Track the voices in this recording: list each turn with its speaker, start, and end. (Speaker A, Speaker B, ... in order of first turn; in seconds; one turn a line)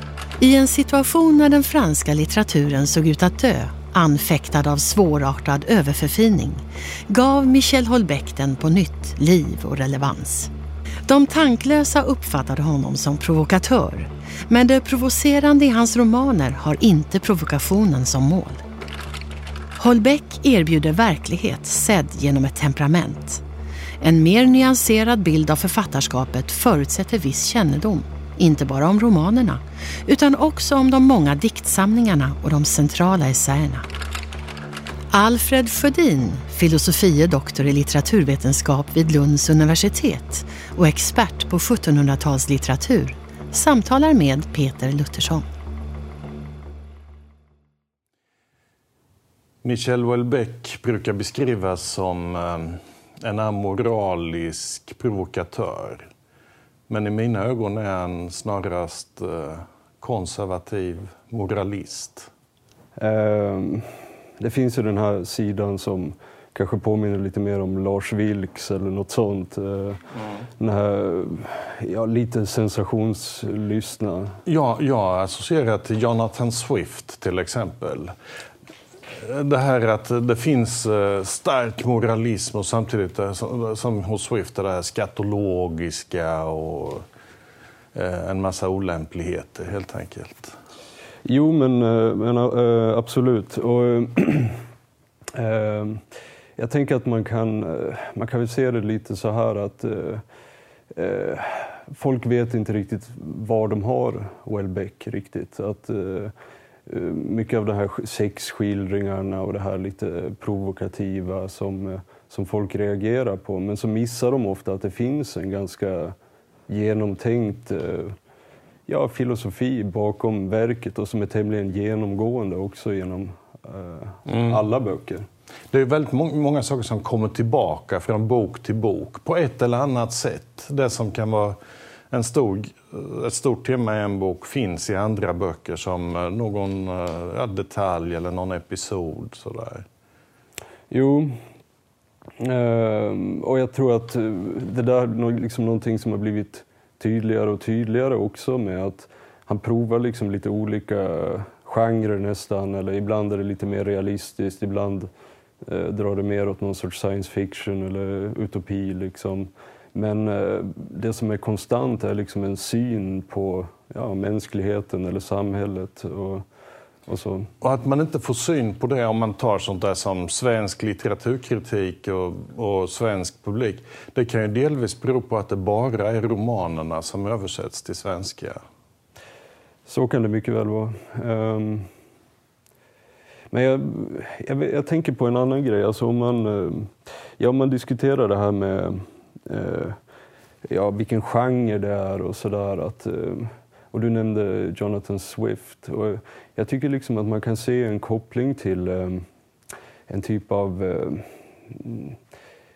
Speaker A: 0.4-10.5
Speaker A: 11.1-18.6
Speaker A: 19.8-23.4
Speaker A: 24.0-33.9
Speaker A: 35.1-45.5
Speaker B: 49.6-56.1
Speaker B: 56.9-62.3
Speaker C: 63.0-70.0
Speaker C: 70.6-74.4
Speaker B: 74.5-78.1
Speaker B: 79.1-87.0
Speaker B: 87.9-90.6
Speaker C: 91.2-94.6
Speaker C: 95.3-96.0
Speaker C: 96.6-100.2
Speaker C: 100.9-106.3
Speaker C: 106.8-116.1
Speaker C: 116.7-118.2
Speaker C: 118.9-125.3
Speaker B: 124.3-124.6
Speaker B: 125.7-131.6
Speaker B: 132.1-139.8
Speaker C: 140.9-141.4
Speaker C: 142.4-155.1
Speaker C: 155.6-166.4
Speaker C: 167.1-167.5
Speaker B: 167.6-178.6
Speaker C: 179.9-181.9
Speaker C: 183.5-190.0
Speaker C: 190.7-199.2
Speaker C: 200.1-202.2